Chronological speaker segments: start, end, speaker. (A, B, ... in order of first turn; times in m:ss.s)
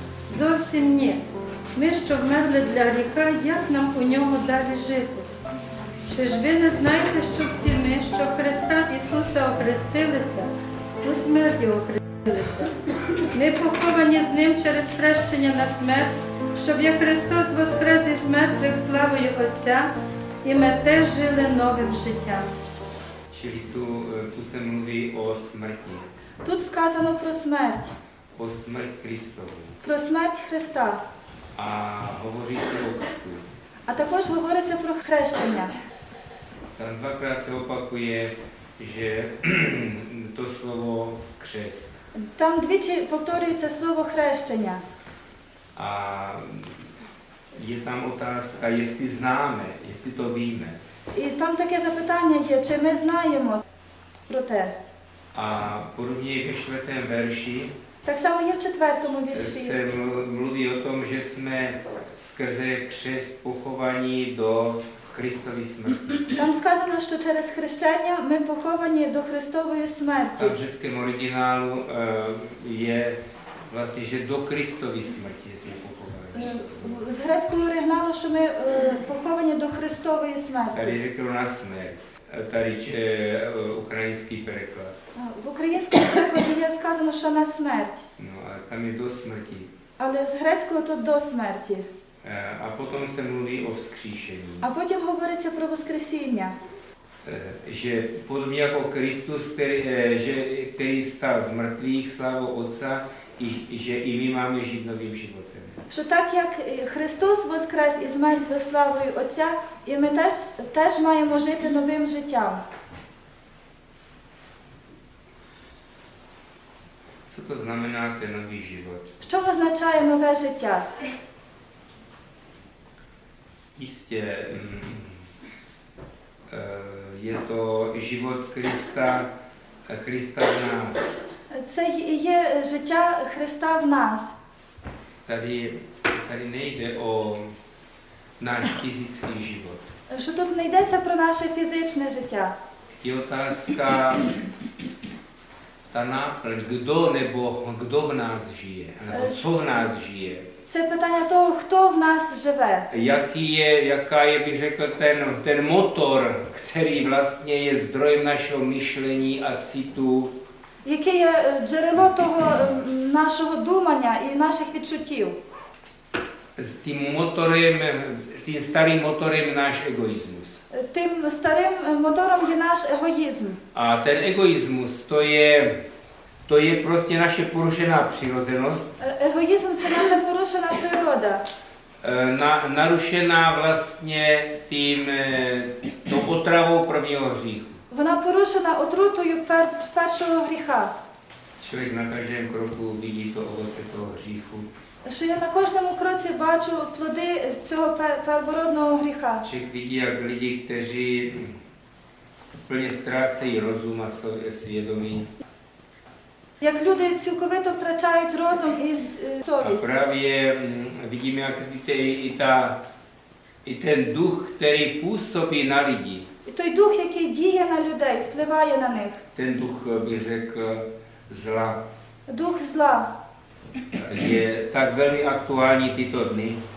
0:00.3-0:05.3 A
0:06.1-0:12.7 A
0:13.3-0:22.6 A
0:23.3-0:26.1 B
0:26.4-0:27.9 C
0:28.4-0:29.8 B
0:29.8-0:31.0 C
0:31.6-0:33.5 B
0:33.9-0:35.7 C
0:36.8-0:41.9 B
0:42.2-0:44.8 C
0:45.8-0:46.9 B
0:47.5-0:50.8 B
0:51.1-0:53.6 C
0:54.3-0:54.8 C
0:55.3-0:57.7 B
0:58.0-0:59.8 C
0:59.3-1:06.3 B
1:06.3-1:10.6 C
1:10.4-1:17.0 B
1:16.3-1:21.0 C
1:20.7-1:24.9 B
1:25.2-1:28.0 C
1:28.2-1:29.7 B
1:30.0-1:31.9 C
1:32.2-1:34.7 B
1:34.6-1:36.6 C
1:37.2-1:45.8 B
1:45.9-1:52.6 C
1:57.3-1:59.1 B
1:59.2-2:00.9 C
2:03.8-2:05.2 B
2:06.5-2:09.3 B
2:09.9-2:11.2 B
2:11.5-2:14.3 C
2:15.2-2:17.5 B
2:18.4-2:19.8 B
2:20.1-2:22.6 C
2:23.0-2:24.3 B
2:25.9-2:30.5 B
2:29.1-2:29.4 C
2:30.7-2:32.9 C
2:32.9-2:40.4 B
2:40.8-2:45.4 C
2:46.6-2:50.6 B
2:50.7-2:53.6 C
2:53.7-2:55.8 B
2:56.5-2:58.9 B
2:59.0-3:01.4 C
3:02.0-3:07.8 B
3:07.9-3:10.9 C
3:11.6-3:14.7 B
3:15.0-3:19.4 C
3:19.4-3:21.6 B
3:22.7-3:25.3 B
3:26.6-3:29.9 C
3:29.6-3:32.8 B
3:33.6-3:36.3 B
3:36.5-3:39.2 C
3:39.3-3:41.8 B
3:42.3-3:43.1 C
3:43.9-3:46.6 B